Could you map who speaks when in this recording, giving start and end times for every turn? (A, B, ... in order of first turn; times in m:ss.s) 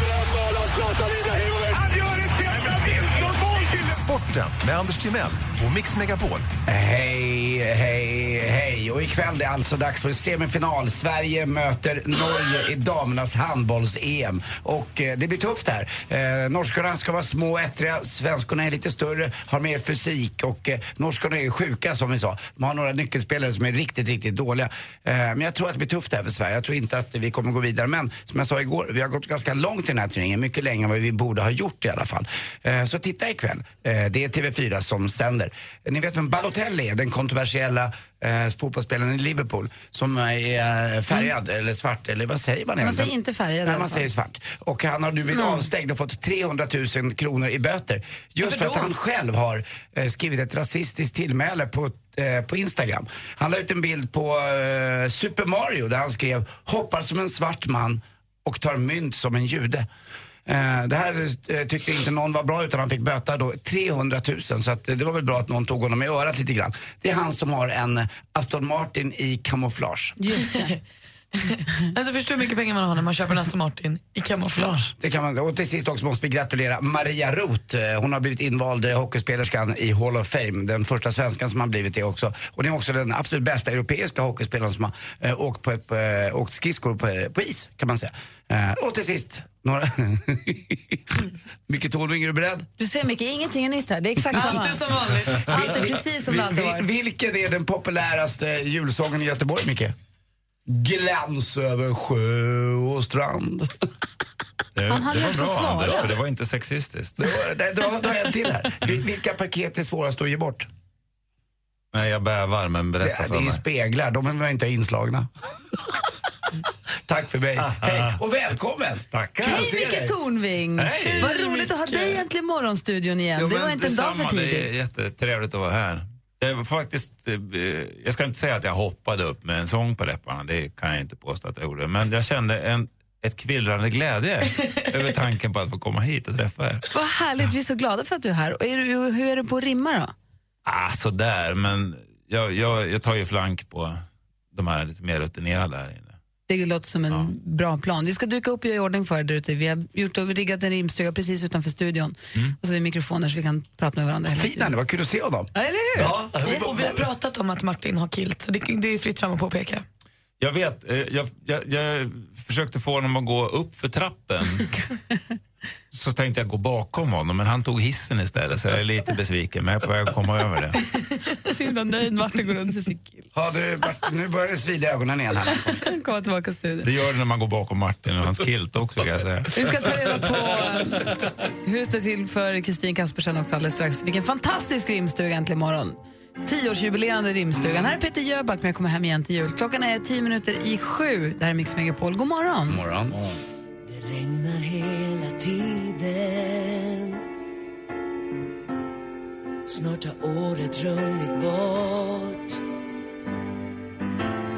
0:01.5-0:06.5 A
0:06.7-0:43.1 B
0:42.8-0:44.1 C
0:43.6-0:59.9 B
0:45.3-0:45.6 C
0:48.4-0:48.9 D
1:00.4-1:10.2 B
1:10.2-1:10.7 C
1:10.4-1:10.8 D
1:11.4-1:14.9 D
1:15.0-1:32.7 B
1:32.8-1:36.8 C
1:34.3-1:35.2 D
1:35.3-1:39.9 B
1:40.6-1:43.7 B
1:44.7-1:47.2 E
1:44.9-1:46.1 C
1:47.2-1:50.7 B
1:51.9-1:53.6 E
1:53.0-1:55.3 B
1:57.0-2:00.2 B
1:57.6-1:58.0 E
1:59.1-1:59.6 E
1:59.4-2:04.7 C
2:00.8-2:01.7 E
2:03.4-2:16.8 E
2:16.9-2:20.1 C
2:20.6-2:24.0 E
2:24.5-2:26.1 E
2:26.5-2:34.7 C
2:34.3-2:37.0 B
2:35.5-2:36.5 C
2:36.4-2:39.8 D
2:40.4-2:44.7 E
2:45.9-2:50.8 E
2:51.4-2:53.3 C
2:53.3-2:55.8 B
2:55.5-2:56.9 C
2:56.8-2:59.6 E
2:59.5-3:12.8 C
3:12.7-3:13.2 B
3:13.8-3:17.2 F
3:19.7-3:22.6 F